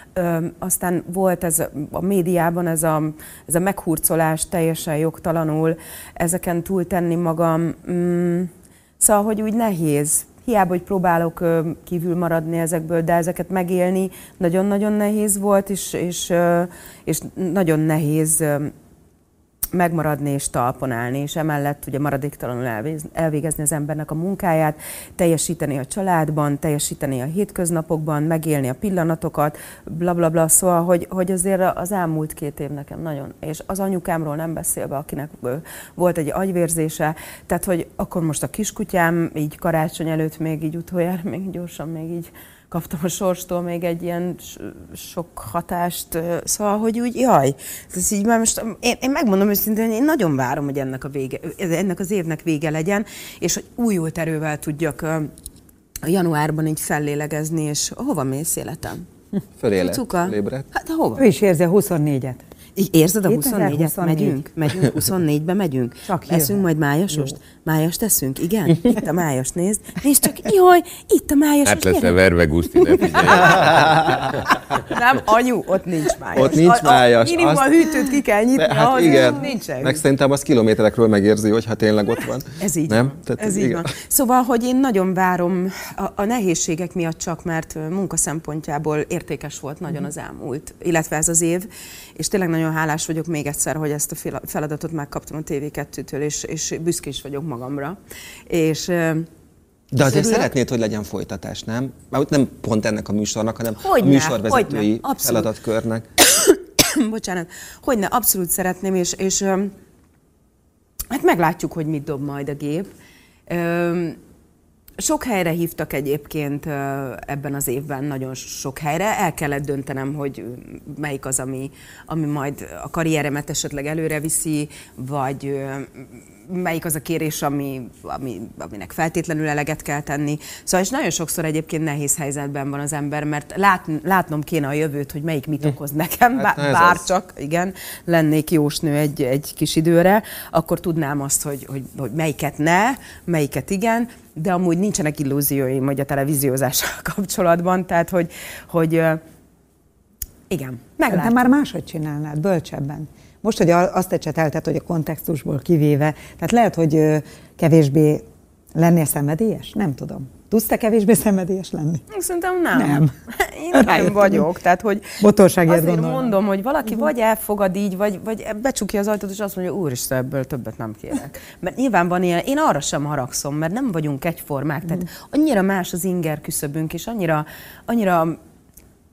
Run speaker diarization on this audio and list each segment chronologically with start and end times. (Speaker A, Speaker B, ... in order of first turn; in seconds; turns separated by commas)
Speaker A: 0.1-18.7, Speaker A: 19.7-55.3, Speaker A: 56.0-59.0, Speaker B: 59.6-60.6, Speaker A: 59.8-61.2, Speaker C: 61.1-62.4, Speaker A: 62.8-72.2, Speaker C: 63.3-64.5, Speaker C: 66.0-67.3, Speaker D: 71.7-74.4, Speaker A: 72.7-80.0, Speaker B: 73.4-74.2, Speaker B: 76.3-77.8, Speaker B: 78.6-83.9, Speaker A: 82.6-98.0, Speaker A: 98.5-99.3, Speaker B: 99.9-106.0, Speaker A: 100.0-100.5, Speaker A: 103.8-105.5, Speaker A: 106.2-109.7, Speaker A: 111.1-112.9, Speaker A: 113.5-114.2, Speaker A: 115.0-149.2, Speaker B: 136.3-137.0, Speaker A: 150.5-151.5, Speaker C: 151.1-158.2, Speaker C: 158.7-162.0, Speaker A: 162.1-178.4, Speaker C: 162.7-163.1, Speaker C: 163.7-164.4, Speaker C: 165.2-166.3